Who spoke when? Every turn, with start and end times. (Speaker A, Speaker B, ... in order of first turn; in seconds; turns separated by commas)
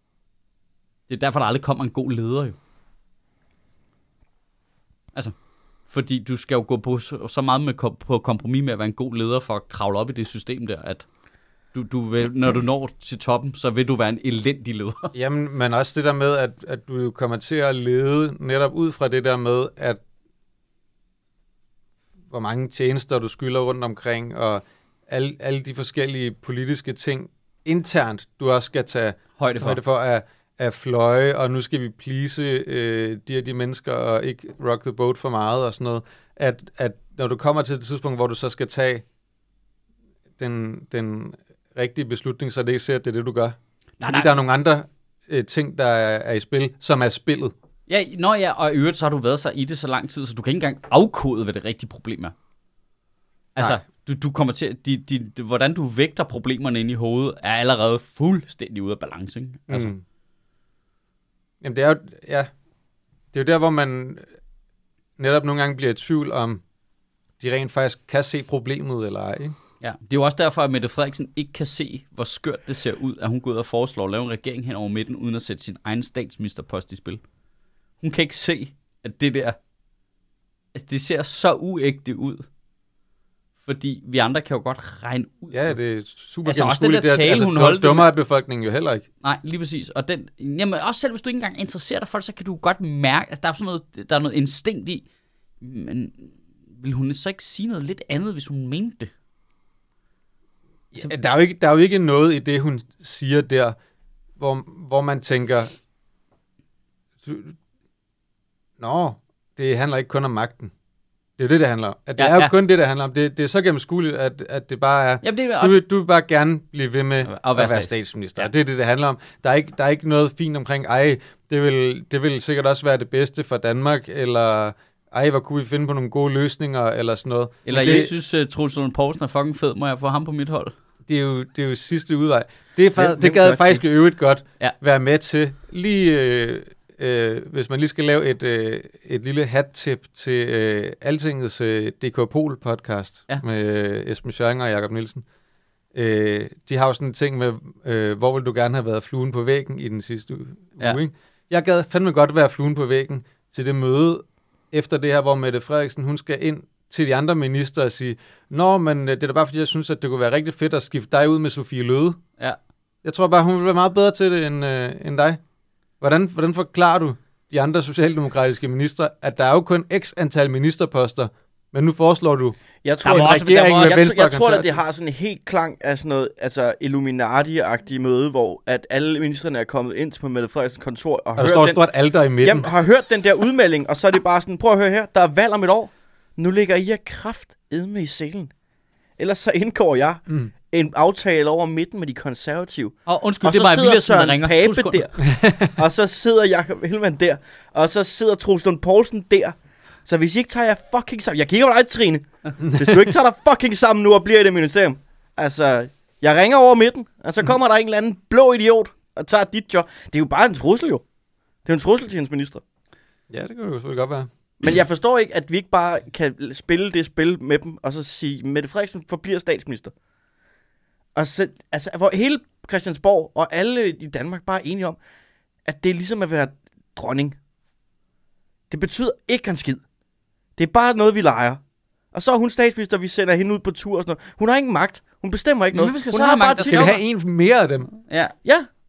Speaker A: 1.1-2.6, Speaker A: 5.9-11.1, Speaker A: 11.7-15.2, Speaker B: 15.2-20.0, Speaker B: 22.3-39.0, Speaker A: 29.4-29.8, Speaker B: 40.4-47.5, Speaker A: 44.0-44.4, Speaker A: 47.9-52.3, Speaker A: 53.6-59.9, Speaker B: 59.7-60.0, Speaker B: 61.6-62.5, Speaker B: 63.3-64.2, Speaker B: 65.2-66.6, Speaker B: 67.4-69.5, Speaker A: 69.8-77.2, Speaker A: 78.0-79.6, Speaker A: 80.7-82.5, Speaker A: 83.7-85.8, Speaker B: 85.5-89.0, Speaker A: 86.5-88.1, Speaker A: 89.2-95.1, Speaker A: 95.6-99.1, Speaker B: 100.9-103.8, Speaker B: 104.4-105.8, Speaker B: 107.2-107.6, Speaker B: 108.8-110.7, Speaker B: 111.4-128.1, Speaker A: 112.2-112.5, Speaker A: 115.2-115.8, Speaker A: 117.2-118.5, Speaker A: 127.7-130.7, Speaker C: 127.7-128.1, Speaker B: 131.1-145.2, Speaker C: 133.0-133.8, Speaker B: 145.9-162.2, Speaker B: 163.0-165.4, Speaker B: 166.0-174.8, Speaker C: 172.8-181.8, Speaker A: 173.0-174.0, Speaker B: 181.4-182.7, Speaker C: 182.4-188.5, Speaker C: 189.2-199.6, Speaker A: 193.1-195.0, Speaker B: 195.2-195.8, Speaker C: 200.1-211.0, Speaker B: 202.6-203.1, Speaker C: 211.7-212.6, Speaker B: 213.3-214.3, Speaker C: 214.6-219.9, Speaker C: 221.2-225.0, Speaker C: 225.7-227.4, Speaker C: 228.7-229.8, Speaker C: 230.6-231.6, Speaker C: 232.1-236.9, Speaker A: 235.7-237.0, Speaker B: 236.6-237.9, Speaker A: 238.1-238.3